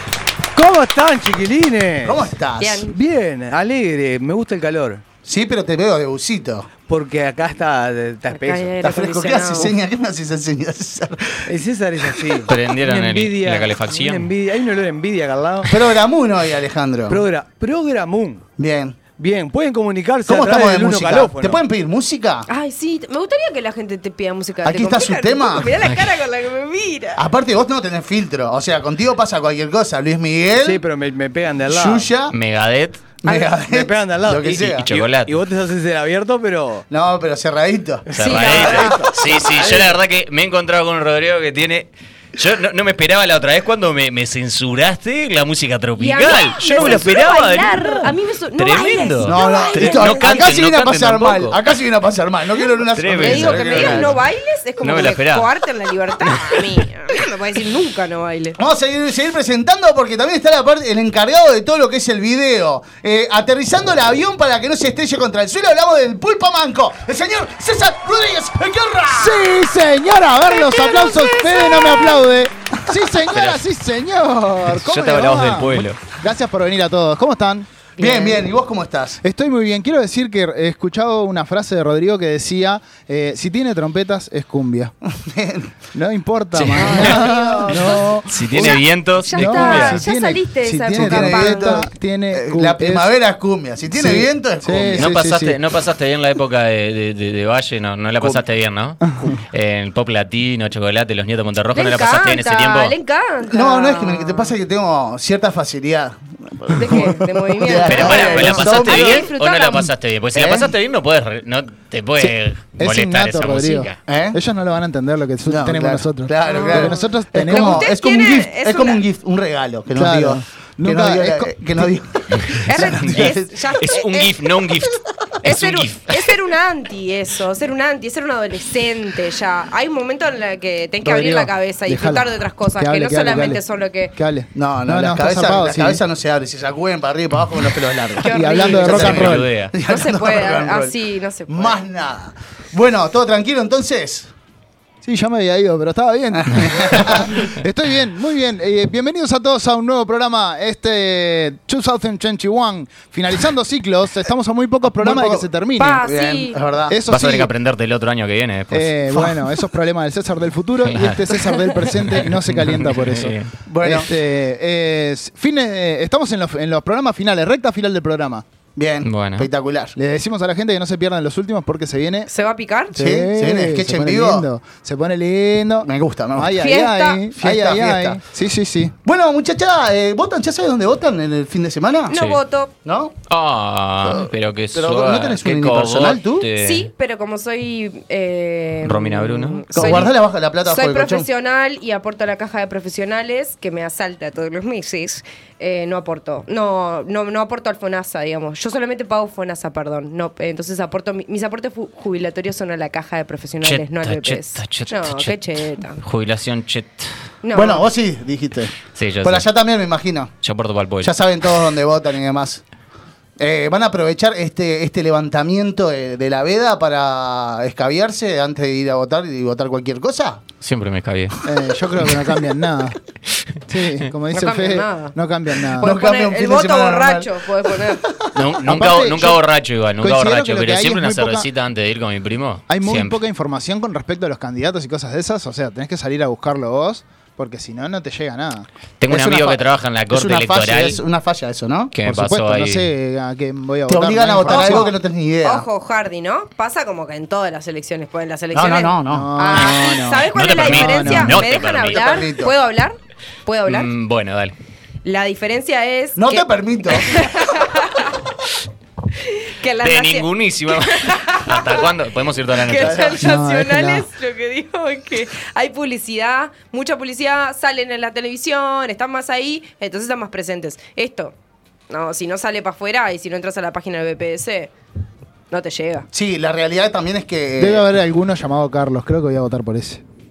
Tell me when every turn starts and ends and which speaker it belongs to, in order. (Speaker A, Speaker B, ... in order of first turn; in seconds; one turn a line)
Speaker A: 0.6-2.3
Speaker B: 2.0-2.9
Speaker C: 2.6-2.9
Speaker A: 2.9-5.0
Speaker B: 5.2-6.7
Speaker A: 6.8-8.8
Speaker C: 8.3-9.7
Speaker B: 8.8-11.4
Speaker A: 11.5-15.8
Speaker D: 12.5-14.3
Speaker B: 15.7-17.2
Speaker A: 17.1-18.4
Speaker B: 18.6-19.0
Speaker A: 19.1-21.6
Speaker B: 20.3-22.5
Speaker C: 22.5-27.2
Speaker B: 24.6-25.7
Speaker D: 25.8-26.1
Speaker B: 27.2-30.8
Speaker A: 30.5-32.1
Speaker B: 31.7-32.3
Speaker D: 32.3-33.0
Speaker B: 33.2-34.9
Speaker A: 33.3-36.9
Speaker D: 34.7-35.4
Speaker B: 36.9-40.0
Speaker D: 38.1-51.6
Speaker A: 38.1-39.1
Speaker C: 38.2-38.9
Speaker C: 46.0-50.5
Speaker B: 46.8-47.0
Speaker B: 49.3-54.2
Speaker D: 52.9-54.2
Speaker C: 53.1-58.6
Speaker D: 54.8-55.5
Speaker B: 58.6-69.4
Speaker E: 69.1-77.7
Speaker C: 70.6-71.8
Speaker D: 73.3-73.6
Speaker D: 74.7-76.0
Speaker C: 78.0-78.4
Speaker B: 78.0-79.2
Speaker E: 79.2-84.9
Speaker B: 85.1-85.7
Speaker E: 85.9-93.1
Speaker D: 86.5-87.2
Speaker C: 86.8-91.8
Speaker D: 88.3-90.0
Speaker B: 90.9-95.1
Speaker E: 93.9-95.6
Speaker D: 95.0-99.0
Speaker D: 99.5-102.9
Speaker C: 101.7-104.5
Speaker B: 103.5-109.3
Speaker C: 106.7-109.9
Speaker D: 107.7-114.0
Speaker B: 110.3-110.7
Speaker E: 112.2-117.9
Speaker B: 114.1-114.4
Speaker B: 115.5-123.4
Speaker C: 116.4-119.0
Speaker E: 120.0-122.0
Speaker C: 122.7-124.4
Speaker D: 122.7-126.2
Speaker C: 125.4-134.1
Speaker E: 131.0-133.6
Speaker E: 134.2-136.0
Speaker B: 134.6-140.9
Speaker C: 138.2-139.3
Speaker E: 138.2-139.5
Speaker D: 138.9-139.7
Speaker C: 139.9-141.8
Speaker B: 141.5-144.3
Speaker E: 145.0-156.1
Speaker B: 146.4-147.5
Speaker B: 154.9-157.0
Speaker C: 155.8-156.6
Speaker E: 156.9-157.5
Speaker D: 157.1-158.9
Speaker E: 158.7-168.4
Speaker D: 160.8-161.3
Speaker D: 162.1-163.5
Speaker B: 163.7-164.1
Speaker B: 168.8-169.9
Speaker D: 169.1-169.5
Speaker E: 170.0-172.3
Speaker C: 172.3-172.9
Speaker E: 172.9-178.9
Speaker B: 172.9-174.5
Speaker B: 175.8-176.6
Speaker C: 176.6-177.2
Speaker B: 177.3-178.2
Speaker B: 179.0-182.2
Speaker C: 182.1-182.7
Speaker D: 182.1-182.4
Speaker B: 182.8-183.1
Speaker D: 183.3-186.9
Speaker B: 184.0-186.5
Speaker C: 186.6-190.1
Speaker D: 188.8-190.1
Speaker B: 189.8-191.3
Speaker C: 190.7-206.0
Speaker D: 203.6-205.4
Speaker D: 206.0-207.1
Speaker C: 207.4-207.8
Speaker B: 207.5-210.3
Speaker D: 208.9-209.5
Speaker D: 210.4-211.1
Speaker B: 211.0-212.6
Speaker B: 213.4-220.4
Speaker D: 220.6-221.4
Speaker E: 221.4-223.0
Speaker E: 223.7-226.0
Speaker C: 224.3-225.2
Speaker C: 225.8-228.0
Speaker B: 225.8-228.1
Speaker D: 228.3-233.2
Speaker E: 228.7-229.4
Speaker E: 230.0-231.5
Speaker E: 232.7-238.7
Speaker D: 239.0-241.0
Speaker B: 239.1-241.9
Speaker D: 241.9-242.9
Speaker E: 242.1-244.9
Speaker B: 243.9-245.7
Speaker C: 244.5-253.9
Speaker B: 248.5-249.6
Speaker E: 249.1-251.4
Speaker D: 250.3-252.2
Speaker B: 251.8-252.5
Speaker D: 253.7-254.6
Speaker C: 255.1-258.1
Speaker B: 256.2-257.5
Speaker C: 259.2-261.9
Speaker D: 259.8-263.2
Speaker C: 262.6-271.4
Speaker E: 263.2-264.1
Speaker C: 271.9-274.7
Speaker C: 275.5-276.1
Speaker B: 276.1-277.9
Speaker E: 277.6-280.0